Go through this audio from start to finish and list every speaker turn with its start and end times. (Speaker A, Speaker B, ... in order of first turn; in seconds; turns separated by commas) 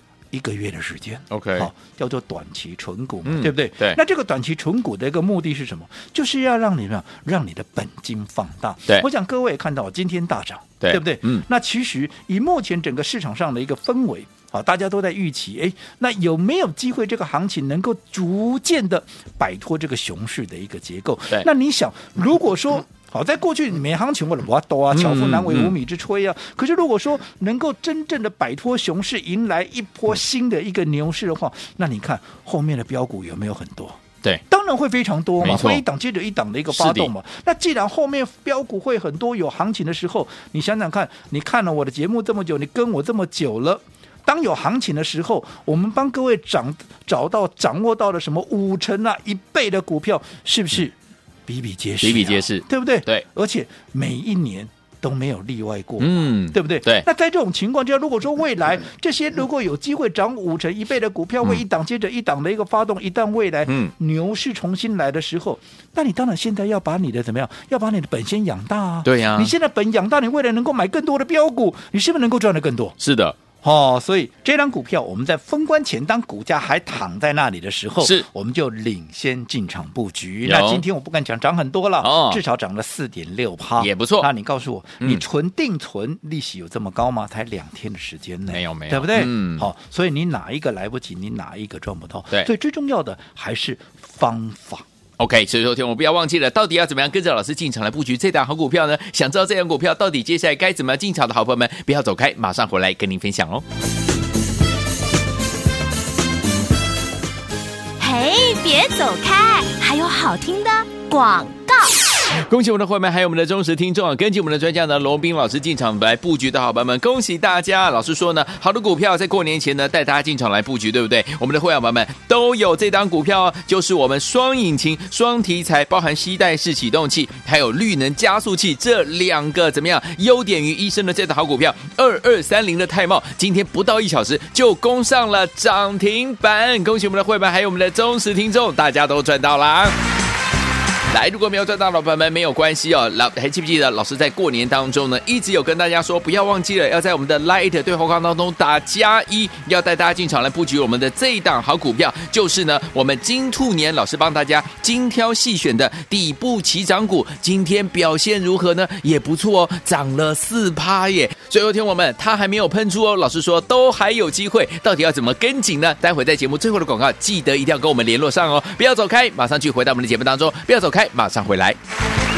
Speaker A: 0.3-51.0, Speaker B: 1.3-1.7, Speaker B: 3.2-4.0, Speaker B: 10.8-11.4, Speaker B: 24.9-25.8, Speaker B: 35.4-35.8, Speaker B: 36.7-37.1, Speaker A: 51.5-73.0, Speaker B: 52.0-53.3, Speaker B: 56.0-57.1, Speaker B: 63.7-63.9, Speaker B: 69.0-69.5, Speaker B: 73.0-73.4, Speaker A: 73.6-94.9, Speaker B: 78.0-78.3, Speaker B: 80.5-80.8, Speaker B: 82.0-82.4, Speaker B: 83.8-84.3, Speaker B: 88.5-89.7, Speaker B: 95.2-103.6, Speaker C: 108.0-112.0, Speaker B: 112.4-139.9, Speaker B: 141.1-171.8